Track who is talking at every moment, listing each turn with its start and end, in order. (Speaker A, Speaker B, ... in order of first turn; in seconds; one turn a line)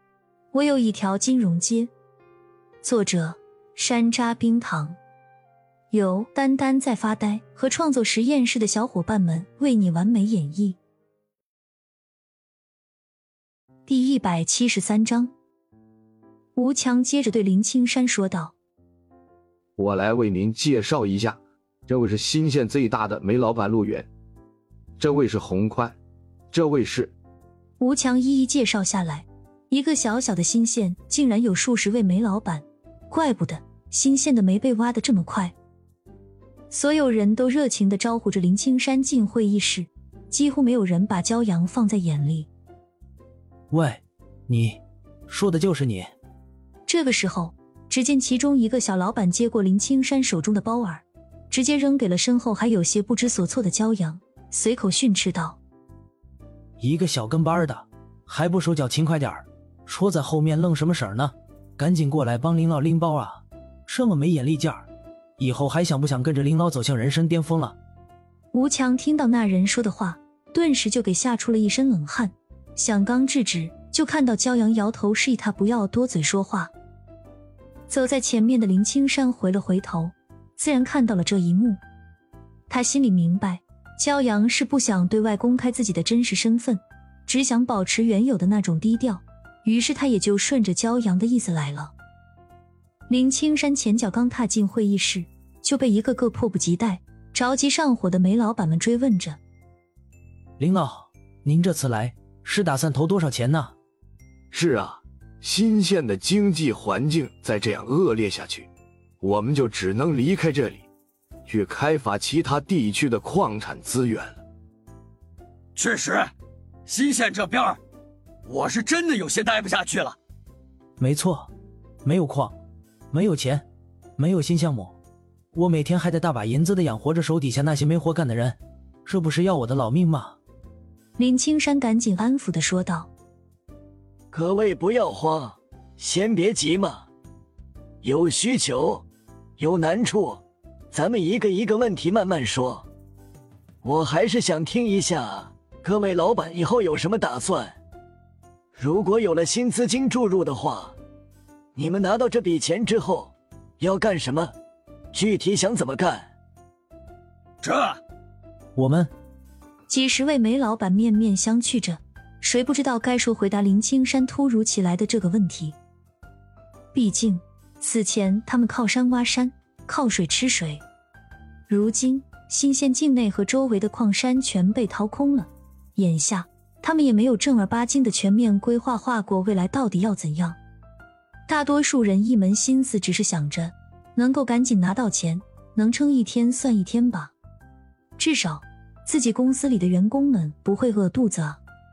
Speaker A: 0.5-1.9
Speaker A: 2.8-5.0
Speaker A: 5.9-10.8
Speaker A: 13.9-15.3
Speaker A: 16.6-18.5
Speaker B: 19.8-24.1
Speaker B: 25.0-26.0
Speaker B: 26.5-27.1
Speaker A: 27.8-35.5
Speaker A: 36.7-42.5
Speaker C: 43.7-46.1
Speaker A: 46.9-55.6
Speaker C: 56.8-64.9
Speaker C: 65.4-67.8
Speaker A: 68.5-76.7
Speaker A: 77.9-81.8
Speaker A: 82.7-91.9
Speaker A: 93.1-99.4
Speaker C: 100.6-103.7
Speaker B: 104.5-108.7
Speaker B: 109.2-110.8
Speaker B: 111.5-114.4
Speaker D: 115.8-116.3
Speaker D: 116.9-117.8
Speaker D: 118.5-120.2
Speaker C: 121.0-121.5
Speaker C: 122.0-122.6
Speaker C: 123.1-123.7
Speaker C: 124.2-125.0
Speaker C: 125.5-130.4
Speaker A: 131.2-133.1
Speaker E: 134.3-137.1
Speaker E: 138.0-139.1
Speaker E: 139.6-142.9
Speaker E: 143.8-147.8
Speaker E: 148.8-151.0
Speaker E: 151.8-154.5
Speaker E: 155.1-156.3
Speaker D: 157.6-158.0
Speaker C: 158.8-159.1
Speaker A: 159.9-165.8
Speaker A: 166.9-170.8
Speaker A: 171.7-180.6
Speaker A: 181.5-187.3
Speaker A: 188.2-191.6